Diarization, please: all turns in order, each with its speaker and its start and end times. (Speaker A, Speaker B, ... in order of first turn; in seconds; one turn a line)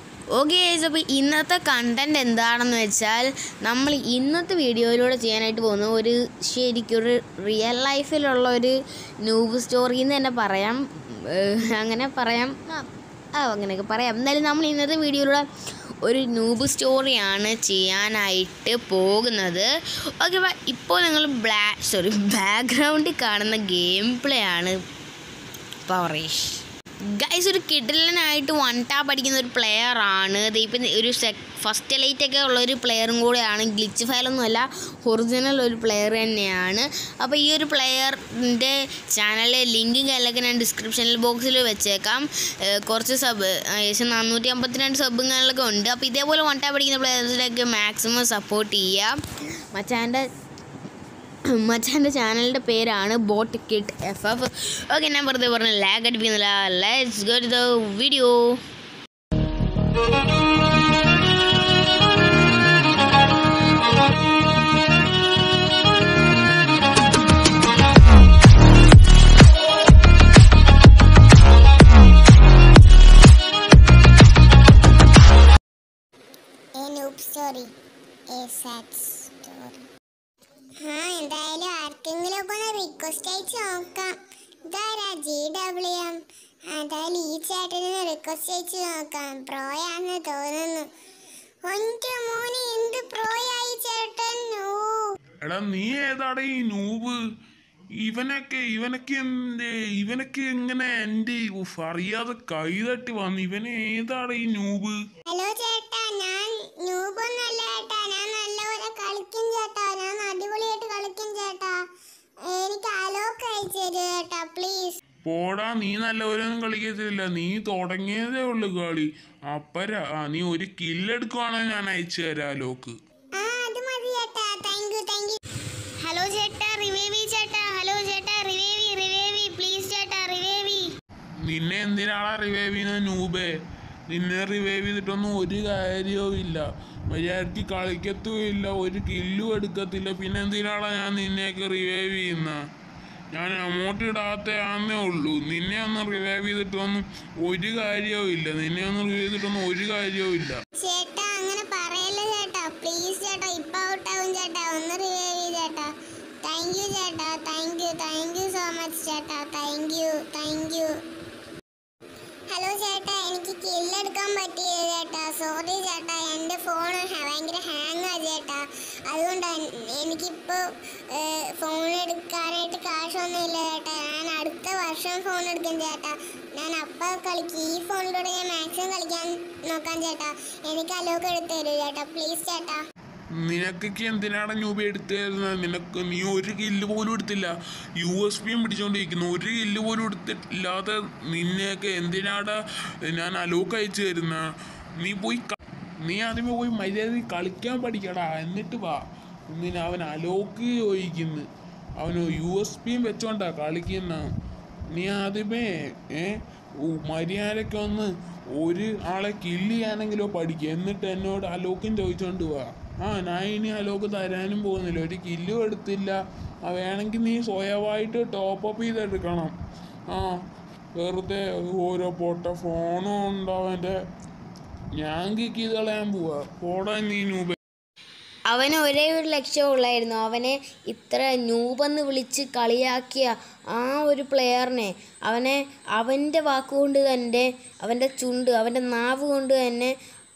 Speaker A: 0.3-15.5
Speaker A: 16.0-24.8
Speaker A: 25.9-49.2
Speaker A: 49.7-50.3
Speaker A: 51.5-58.6
Speaker B: 76.8-77.7
Speaker B: 78.3-79.8
Speaker B: 80.8-84.2
Speaker B: 84.7-90.9
Speaker B: 91.7-95.1
Speaker C: 95.4-97.2
Speaker C: 98.0-105.0
Speaker B: 105.3-111.8
Speaker B: 112.4-115.0
Speaker C: 115.2-123.0
Speaker B: 123.4-125.4
Speaker B: 126.0-130.9
Speaker C: 131.4-133.5
Speaker C: 134.1-142.6
Speaker C: 143.3-150.6
Speaker B: 150.8-155.9
Speaker B: 156.4-161.0
Speaker B: 162.5-182.8
Speaker C: 183.4-194.5
Speaker C: 195.0-195.5
Speaker C: 196.0-201.5
Speaker C: 202.0-204.3
Speaker C: 204.9-219.6
Speaker C: 220.1-220.4
Speaker C: 221.0-224.0
Speaker C: 225.0-227.6
Speaker A: 228.5-239.9